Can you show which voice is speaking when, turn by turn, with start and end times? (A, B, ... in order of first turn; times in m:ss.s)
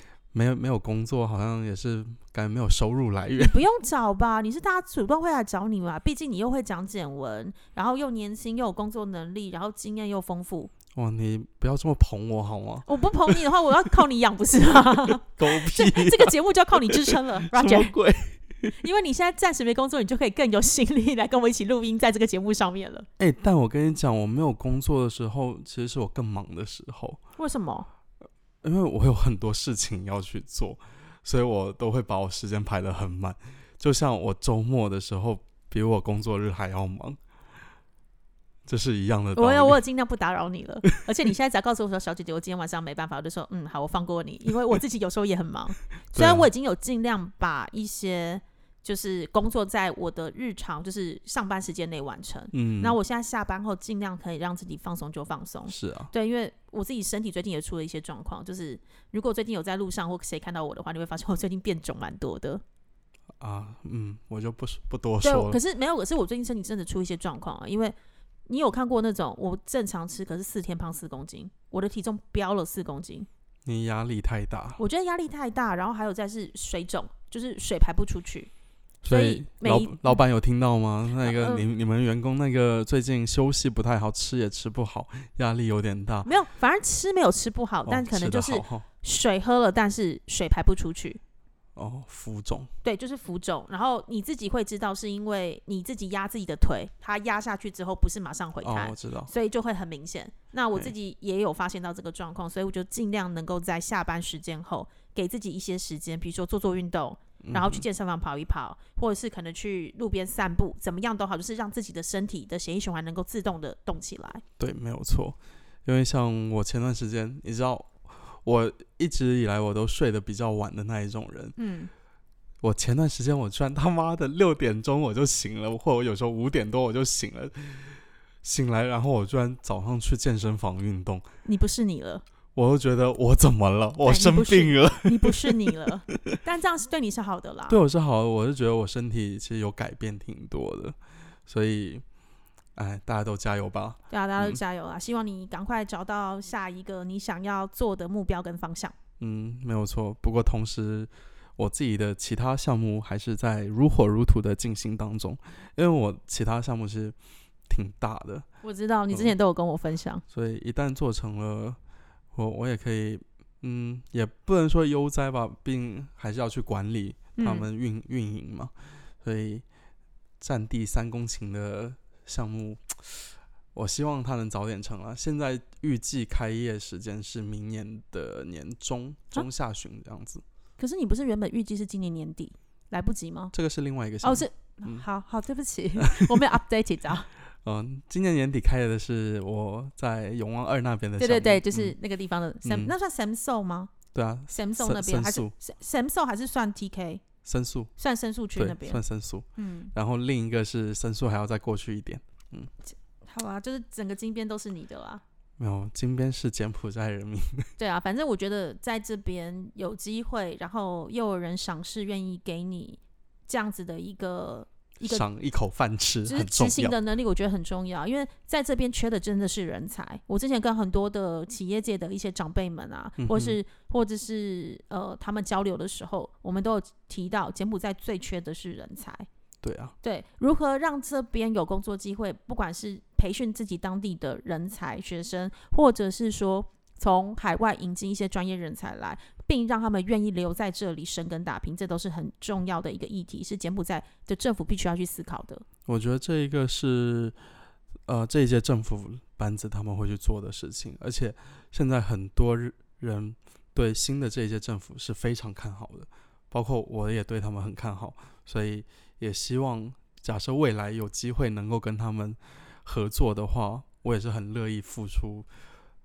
0:00.3-0:03.6 A
0:03.4-0:10.7 B
0:10.9-0:13.4 A
0:12.9-0:17.9 B
0:15.4-0:18.7 A
0:18.8-0:23.1 B
0:23.2-0:27.2 A
0:27.4-0:27.9 B
0:28.6-0:37.2 A
0:38.6-0:39.8 A
0:39.4-1:02.6 B
0:46.1-0:46.5 A
0:52.5-0:53.0 A
0:55.7-0:56.1 A
1:03.4-1:05.6 A
1:05.2-1:07.9 B
1:08.4-1:13.3 B
1:13.6-1:14.8 A
1:14.8-1:18.5 B
1:19.0-1:26.3 A
1:19.1-1:20.2 B
1:21.1-1:21.6 B
1:26.2-1:31.2 B
1:27.8-1:28.8 A
1:31.8-1:32.7 A
1:32.8-1:54.4 B
1:38.6-1:39.3 A
1:47.4-1:47.8 A
1:54.6-2:01.6 A
2:01.6-2:01.9 B
2:02.6-2:11.2 A
2:11.4-2:12.2 B
2:12.6-2:15.7 A
2:14.0-2:17.8 B
2:17.7-2:21.0 A
2:21.5-2:22.0 A
2:22.7-2:24.6 A
2:24.1-2:28.9 B
2:29.2-2:37.2 A
2:37.7-2:38.4 A
2:38.6-2:40.2 B
2:40.3-2:41.8 A
2:42.3-2:49.6 A
2:47.4-2:47.7 B
2:50.4-3:00.4 A
3:00.8-3:03.5 B
3:03.5-3:05.0 A
3:04.2-3:07.3 B
3:06.0-3:06.4 A
3:07.6-3:11.9 A
3:11.2-3:13.9 B
3:12.6-3:12.9 A
3:14.1-3:15.5 A
3:14.5-3:17.2 B
3:17.4-3:17.9 A
3:18.0-3:19.0 B
3:18.6-3:22.7 A
3:19.6-3:19.9 B
3:22.9-3:25.2 B
3:25.6-3:27.7 A
3:27.8-3:35.2 B
3:35.0-3:36.9 A
3:36.2-3:49.3 B
3:43.2-3:43.6 A
3:49.6-3:49.9 A
3:50.0-4:05.6 B
4:05.9-4:07.4 A
4:08.1-4:25.5 A